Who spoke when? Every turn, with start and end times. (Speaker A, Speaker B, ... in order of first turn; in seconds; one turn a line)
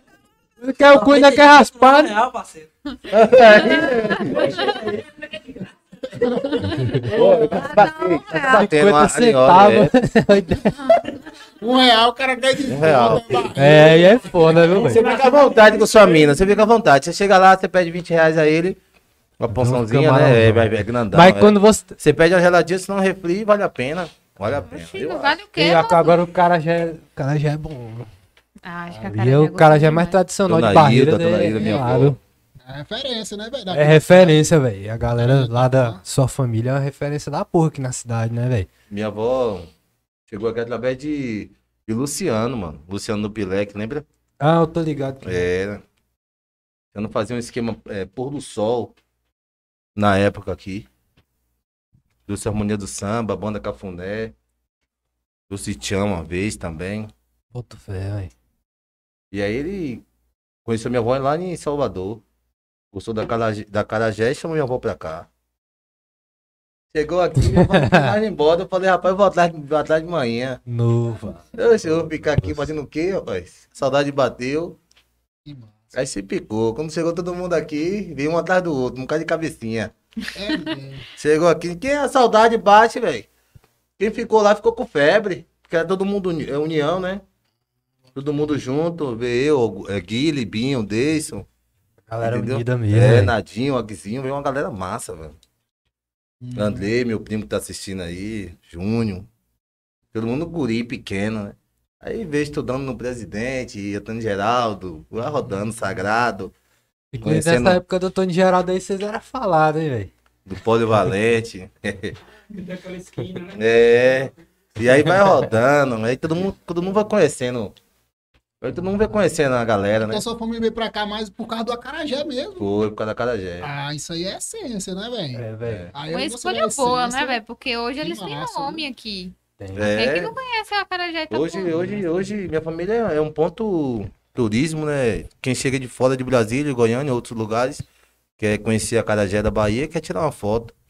Speaker A: 0.6-2.1
Speaker B: 0.9-5.0
Speaker C: 3.1-4.5
Speaker D: 3.6-4.7
Speaker E: 4.2-5.7
Speaker F: 6.1-7.1
Speaker D: 6.5-8.7
Speaker C: 7.1-9.9
Speaker A: 8.5-10.8
Speaker F: 11.6-14.2
Speaker C: 12.7-13.5
Speaker A: 13.5-15.1
Speaker E: 13.6-16.5
Speaker C: 14.7-18.8
Speaker C: 19.4-25.4
Speaker A: 19.6-22.0
Speaker D: 24.6-26.1
Speaker A: 25.6-28.1
Speaker D: 28.6-30.2
Speaker A: 28.9-32.2
Speaker C: 30.5-32.2
Speaker F: 31.6-32.1
Speaker F: 32.6-34.4
Speaker A: 33.7-38.7
Speaker F: 35.2-36.0
Speaker C: 38.9-39.7
Speaker C: 40.3-44.0
Speaker A: 44.4-45.4
Speaker C: 45.2-45.8
Speaker C: 46.9-48.9
Speaker C: 50.0-50.9
Speaker C: 52.3-54.3
Speaker C: 55.5-57.1
Speaker A: 57.5-58.3
Speaker C: 59.3-60.0
Speaker C: 60.6-62.2
Speaker C: 62.9-65.3
Speaker C: 66.9-70.6
Speaker A: 67.4-68.1
Speaker A: 70.7-71.4
Speaker C: 71.5-74.8
Speaker F: 75.5-75.9
Speaker C: 75.9-79.9
Speaker F: 80.3-81.0
Speaker C: 81.2-83.3
Speaker C: 84.0-87.2
Speaker C: 88.2-91.5
Speaker A: 92.1-93.3
Speaker C: 92.2-95.4
Speaker F: 96.4-96.8
Speaker C: 96.5-99.3
Speaker C: 100.1-106.5
Speaker A: 107.1-110.1
Speaker C: 107.2-107.8
Speaker C: 110.5-112.2
Speaker E: 112.7-113.5
Speaker C: 113.5-117.7
Speaker C: 118.6-120.2
Speaker F: 120.1-122.7
Speaker C: 122.6-123.7
Speaker F: 123.6-127.4
Speaker A: 125.3-125.9
Speaker C: 125.7-125.9
Speaker D: 126.1-132.1
Speaker F: 128.0-128.8
Speaker A: 129.6-130.1
Speaker C: 129.7-130.3
Speaker C: 131.3-137.8
Speaker C: 138.4-140.7